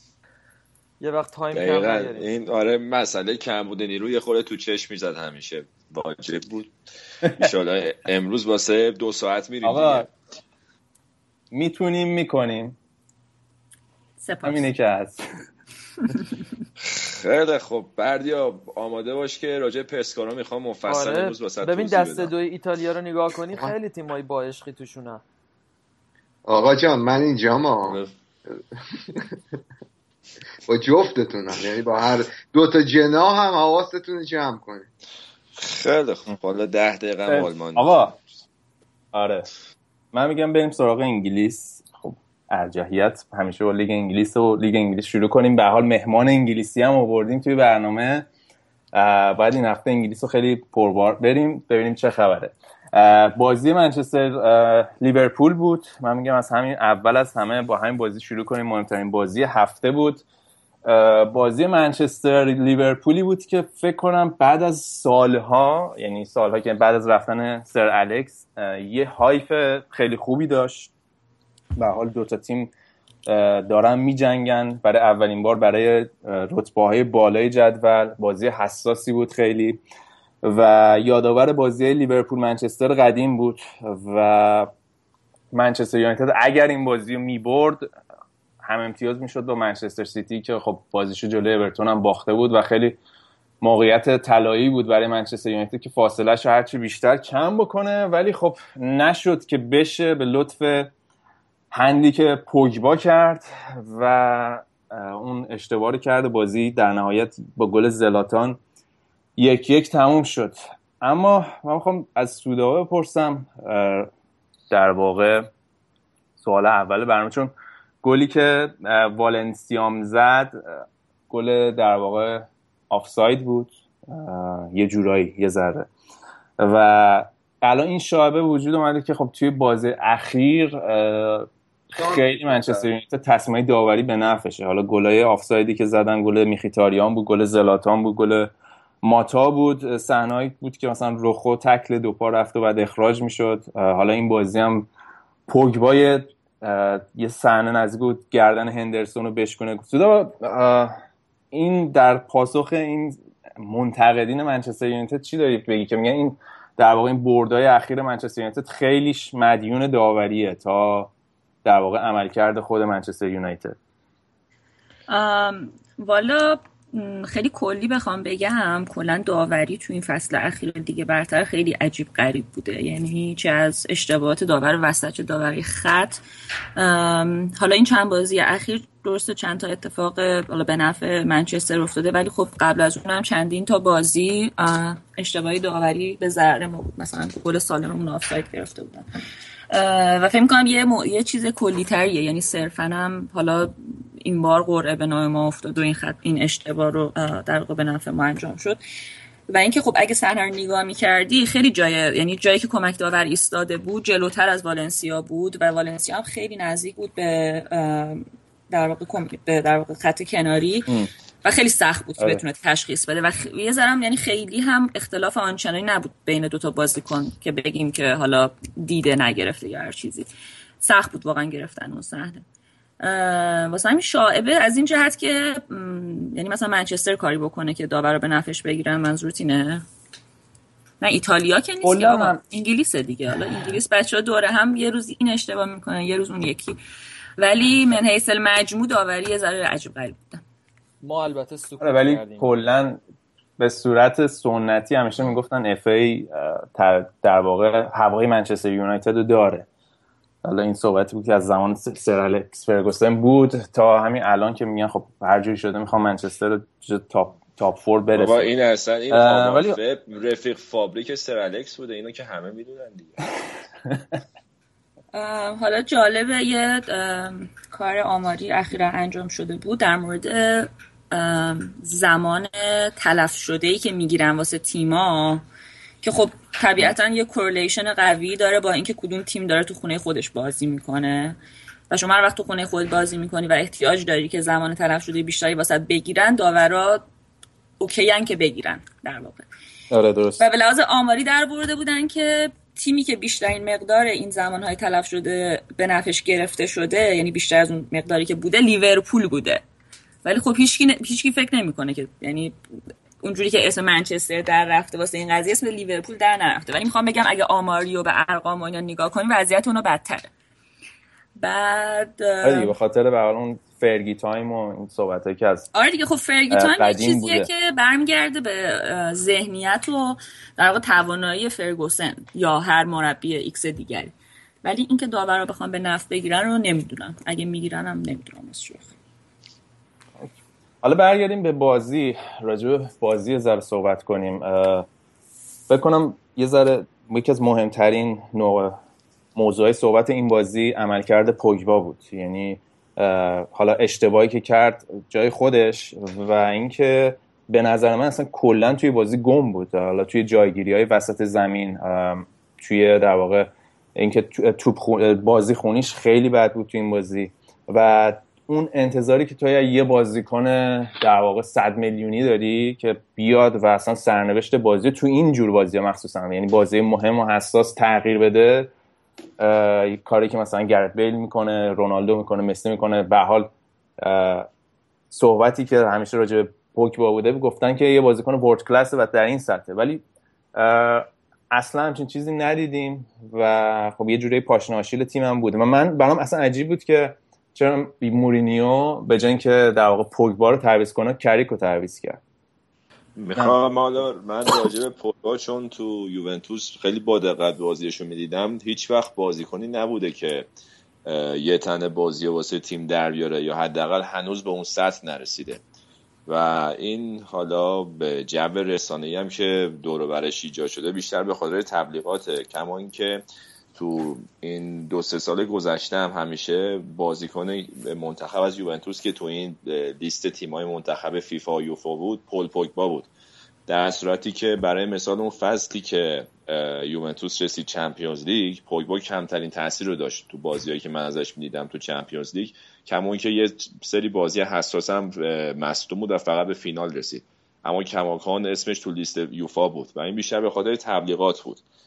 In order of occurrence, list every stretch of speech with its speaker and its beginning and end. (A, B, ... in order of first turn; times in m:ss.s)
0:01.0-0:02.3 A
0:01.5-0:06.7 B
0:07.4-0:10.1 B
0:09.6-0:10.1 C
0:11.5-0:12.8 C
0:14.2-0:14.7 D
0:14.4-0:15.2 C
0:16.8-0:22.3 B
0:20.8-0:25.2 A
0:26.4-0:28.0 E
0:27.8-0:28.1 B
0:30.7-0:34.9 E
0:35.6-0:38.2 B
0:37.2-0:38.1 C
0:39.1-0:39.5 C
0:40.1-0:48.3 C
0:48.9-1:00.2 C
1:00.8-1:10.9 C
1:11.8-1:12.7 C
1:13.2-1:19.8 C
1:20.4-1:24.7 C
1:25.5-1:27.9 C
1:28.6-1:33.0 C
1:33.6-1:40.9 C
1:41.7-1:48.6 C
1:49.4-1:54.1 C
1:54.7-1:55.5 C
1:56.4-2:05.9 C
2:06.6-2:18.5 C
2:11.9-2:12.9 E
2:19.0-2:24.9 C
2:25.5-2:31.0 C
2:31.5-2:41.1 C
2:41.6-2:43.8 C
2:45.1-2:56.2 D
2:56.8-3:09.1 D
3:09.7-3:18.8 D
3:19.5-3:30.9 D
3:31.4-3:40.3 D
3:40.8-3:42.4 D
3:43.0-3:49.8 D
3:51.0-3:56.8 D
3:51.8-3:52.4 C
3:57.4-4:00.4 D
4:01.0-4:02.5 A
4:01.8-4:03.0 C
4:03.6-4:09.7 C
4:10.4-4:18.5 C
4:18.1-4:23.2 B
4:19.1-4:19.8 C
4:25.1-4:35.4 D
4:36.0-4:41.4 D
4:41.9-4:47.0 D
4:47.8-4:49.5 D
4:49.9-4:50.4 C
4:50.4-4:59.6 D
5:00.2-5:02.5 D
5:03.2-5:10.3 D
5:11.4-5:12.7 D
5:12.4-5:15.7 C
5:15.7-5:24.1 D
5:16.5-5:17.5 C
5:24.6-5:28.9 D
5:30.8-5:34.9 C
5:35.7-5:38.8 C
5:39.3-6:08.7 C
6:09.4-6:14.5 C
6:15.1-6:20.0 C
6:20.5-6:32.2 C
6:33.2-6:40.5 B
6:41.0-6:45.6 B
6:46.3-6:53.2 B
6:53.7-7:03.1 B
7:03.7-7:21.6 B